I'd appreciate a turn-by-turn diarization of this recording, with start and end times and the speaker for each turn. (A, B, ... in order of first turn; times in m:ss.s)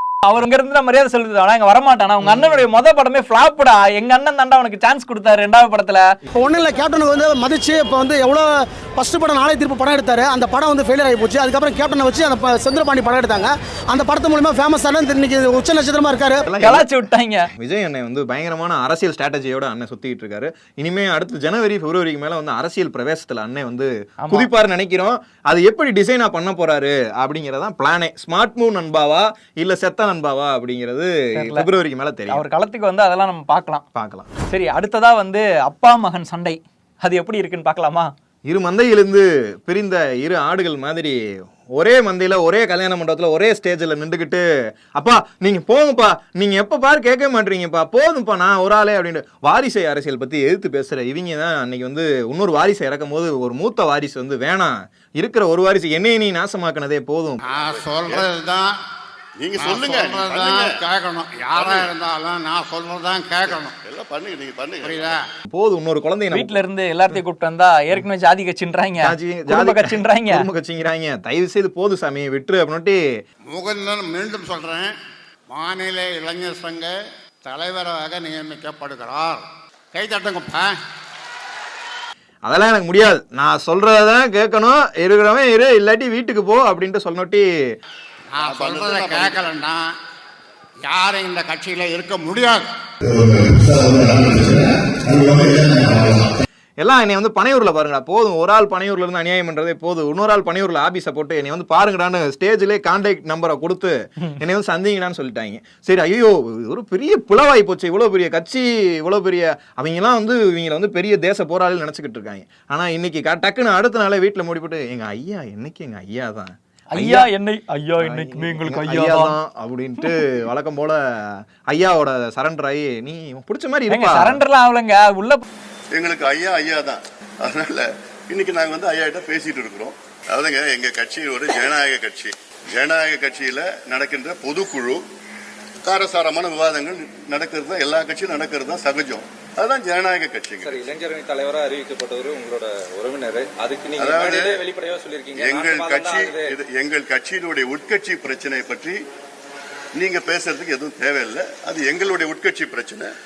0:00.3-0:06.0 A
0:06.4-0:16.4 B
0:16.5-0:16.9 C
0:16.6-0:17.5 A
0:17.6-0:32.4 C
0:24.2-0:24.5 A
0:31.4-0:31.7 A
0:32.3-0:33.8 A
0:34.0-0:34.3 C
0:34.5-0:38.1 A
0:38.5-0:57.4 C
0:57.4-0:58.7 D
0:57.7-0:58.3 E
0:59.4-1:00.8 E
0:59.6-1:03.8 D
1:01.4-1:02.0 E
1:03.5-1:05.2 E
1:04.8-1:05.2 D
1:05.5-1:06.6 C
1:06.3-1:10.4 A
1:09.0-1:13.0 C
1:13.5-1:14.9 D
1:15.5-1:16.9 D
1:17.4-1:20.7 D
1:22.4-1:27.5 C
1:28.3-1:29.9 D
1:28.4-1:29.5 E
1:30.8-1:32.7 D
1:33.1-1:36.2 E
1:36.8-1:57.3 C
1:56.9-1:59.4 A
1:58.0-2:04.4 C
2:03.9-2:05.4 A
2:06.0-2:15.0 E
2:15.8-2:20.9 E
2:20.6-2:26.6 F
2:24.0-2:24.6 E
2:25.4-2:29.0 E
2:30.0-2:33.1 E